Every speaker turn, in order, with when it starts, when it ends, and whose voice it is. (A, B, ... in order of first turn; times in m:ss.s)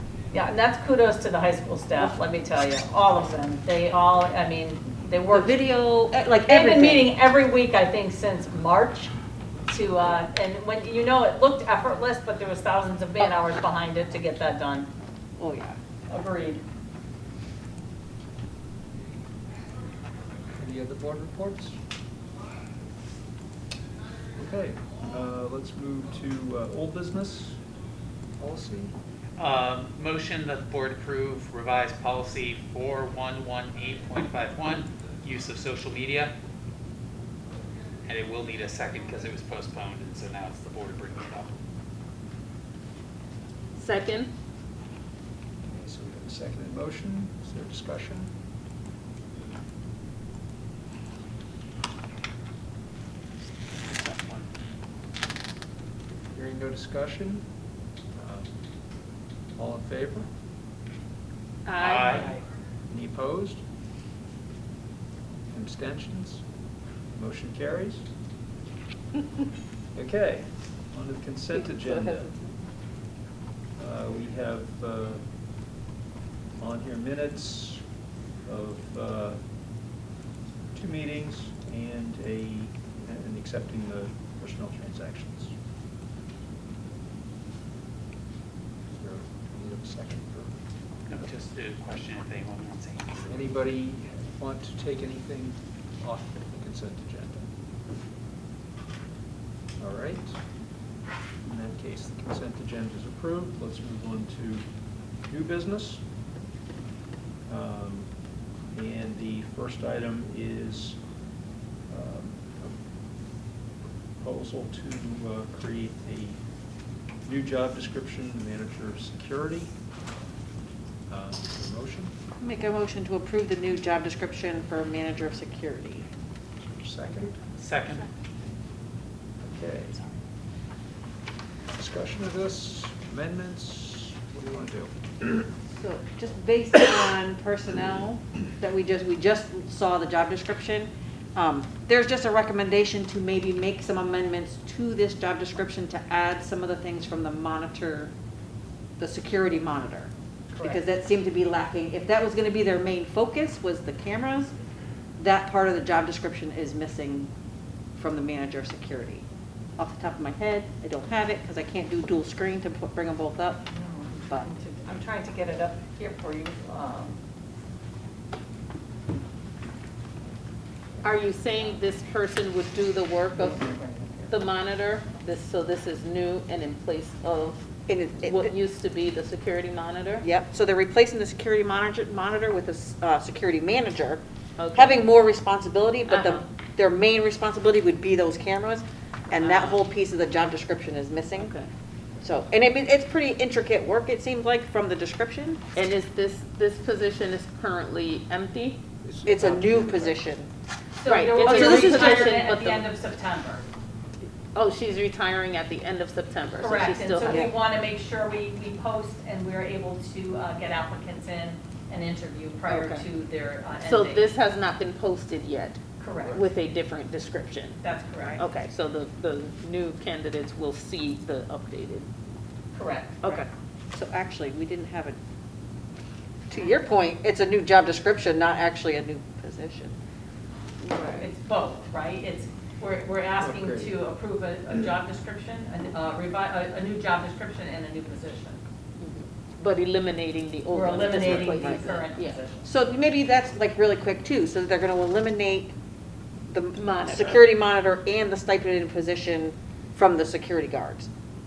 0:00.3-0:05.5 A
0:05.3-0:07.1 B
0:06.5-0:09.1 A
0:09.7-0:14.9 A
0:15.4-0:15.8 B
0:16.1-0:16.6 A
0:20.6-0:21.8 C
0:24.4-0:27.6 C
0:28.4-0:29.0 C
0:29.4-0:36.3 D
0:38.1-0:41.5 D
0:43.8-0:44.3 E
0:45.6-0:48.3 C
0:53.8-0:54.5 D
0:56.3-0:57.4 C
0:58.2-0:58.5 C
0:59.6-1:00.3 C
1:01.7-1:02.4 E
1:01.8-1:02.3 D
1:02.9-1:03.6 C
1:05.5-1:06.4 C
1:07.1-1:08.1 C
1:10.0-1:12.3 C
1:11.5-1:12.6 E
1:13.8-1:15.2 C
1:16.6-1:17.8 C
1:18.5-1:19.4 C
1:20.7-1:25.5 C
1:28.9-1:30.6 C
1:31.1-1:33.4 D
1:33.3-1:37.5 C
1:39.8-1:40.4 C
1:41.4-1:44.7 C
1:45.3-1:46.0 C
1:47.5-1:48.1 C
1:48.7-1:51.0 C
1:51.9-1:52.8 C
1:54.2-1:56.4 C
1:57.2-1:59.7 C
2:01.1-2:02.1 C
2:02.4-2:06.1 B
2:06.6-2:07.4 C
2:07.6-2:08.1 D
2:09.4-2:10.0 C
2:11.8-2:15.3 C
2:15.8-2:28.1 B
2:29.0-2:34.5 B
2:30.5-2:30.9 A
2:35.2-2:37.3 B
2:38.0-2:39.2 B
2:39.8-2:43.7 B
2:43.7-2:47.2 A
2:51.0-2:53.7 E
2:53.4-2:54.3 A
2:54.3-2:57.6 E
2:57.9-2:58.6 B
2:58.2-3:00.2 E
3:00.2-3:04.2 B
3:04.6-3:05.0 E
3:04.7-3:11.5 B
3:06.1-3:06.4 E
3:09.4-3:09.8 E
3:11.4-3:11.7 E
3:12.2-3:15.6 B
3:15.8-3:18.8 E
3:19.0-3:20.2 C
3:19.2-3:20.5 B
3:21.0-3:23.7 A
3:21.1-3:22.9 E
3:21.4-3:22.3 B
3:24.6-3:27.5 E
3:26.6-3:34.3 A
3:27.2-3:27.5 B
3:32.7-3:33.1 E
3:33.8-3:37.8 E
3:36.0-3:36.5 A
3:37.8-3:38.5 A
3:38.4-3:42.1 E
3:42.7-3:43.5 A
3:43.2-3:43.5 E
3:43.9-3:45.2 B
3:46.5-3:50.0 B
3:50.8-3:51.3 E
3:50.9-3:58.6 A
3:53.4-3:53.9 C
3:59.0-4:02.4 E
4:00.7-4:02.7 A
4:02.6-4:05.7 B
4:06.5-4:11.1 B
4:06.8-4:07.4 E